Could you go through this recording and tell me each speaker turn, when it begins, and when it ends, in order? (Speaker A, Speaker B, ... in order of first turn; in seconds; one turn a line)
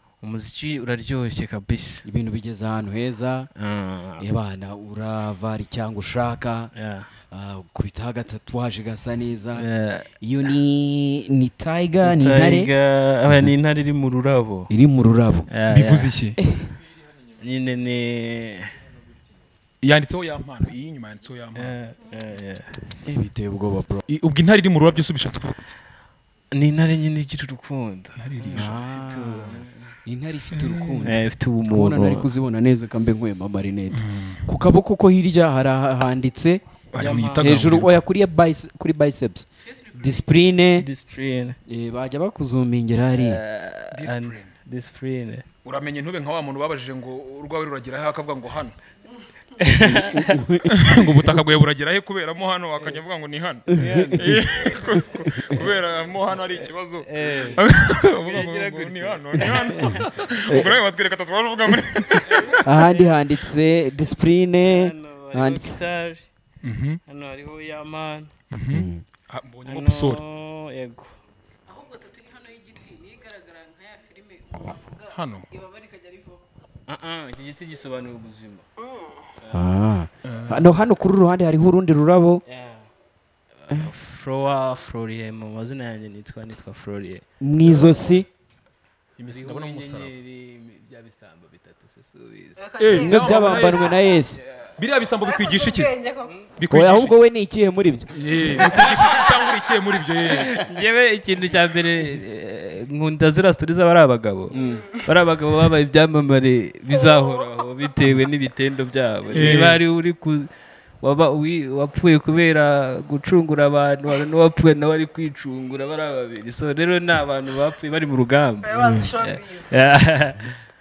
Speaker A: 0.2-2.0
Speaker B: 2.0-3.5
Speaker A: 3.6-4.2
Speaker B: 4.2-6.7
Speaker A: 6.7-7.1
Speaker B: 7.3-9.7
Speaker A: 9.6-10.1
Speaker B: 10.2-12.7
Speaker A: 12.0-14.7
Speaker B: 14.7-15.5
Speaker A: 15.5-16.1
Speaker C: 15.7-16.4
Speaker B: 16.4-16.7
Speaker A: 17.4-18.7
Speaker C: 19.8-21.7
Speaker A: 21.5-22.8
Speaker B: 23.0-24.0
Speaker C: 24.1-25.7
Speaker A: 26.5-29.9
Speaker C: 28.2-28.6
Speaker B: 28.5-36.6
Speaker C: 30.6-31.0
Speaker A: 31.0-32.3
Speaker C: 33.9-34.4
Speaker C: 36.9-38.0
Speaker A: 37.0-37.6
Speaker B: 37.4-40.9
Speaker A: 40.8-41.6
Speaker B: 41.6-43.4
Speaker A: 43.2-45.5
Speaker C: 43.9-44.5
Speaker C: 45.6-48.7
Speaker A: 49.6-50.4
Speaker B: 49.8-51.1
Speaker C: 50.7-62.6
Speaker A: 53.7-54.7
Speaker B: 53.7-55.6
Speaker A: 57.1-60.1
Speaker B: 59.5-60.7
Speaker A: 62.2-63.1
Speaker B: 62.6-65.8
Speaker A: 64.6-66.3
Speaker C: 66.6-67.0
Speaker A: 67.1-68.3
Speaker C: 68.5-70.2
Speaker B: 68.7-69.0
Speaker A: 69.7-71.2
Speaker D: 71.7-76.4
Speaker C: 75.1-75.5
Speaker A: 76.9-78.6
Speaker D: 78.8-79.1
Speaker B: 79.5-82.4
Speaker C: 80.2-80.6
Speaker A: 82.5-82.8
Speaker A: 83.6-87.2
Speaker B: 87.4-88.3
Speaker C: 89.2-90.1
Speaker A: 89.3-92.7
Speaker D: 92.6-93.8
Speaker C: 92.8-94.0
Speaker B: 92.9-94.4
Speaker C: 94.8-96.0
Speaker D: 95.2-96.4
Speaker C: 96.6-97.2
Speaker B: 96.7-99.3
Speaker C: 98.1-100.6
Speaker A: 98.8-99.2
Speaker A: 100.4-110.5
Speaker B: 104.5-105.0
Speaker C: 109.3-109.8
Speaker A: 111.0-120.5
Speaker D: 118.6-119.8
Speaker C: 118.8-119.1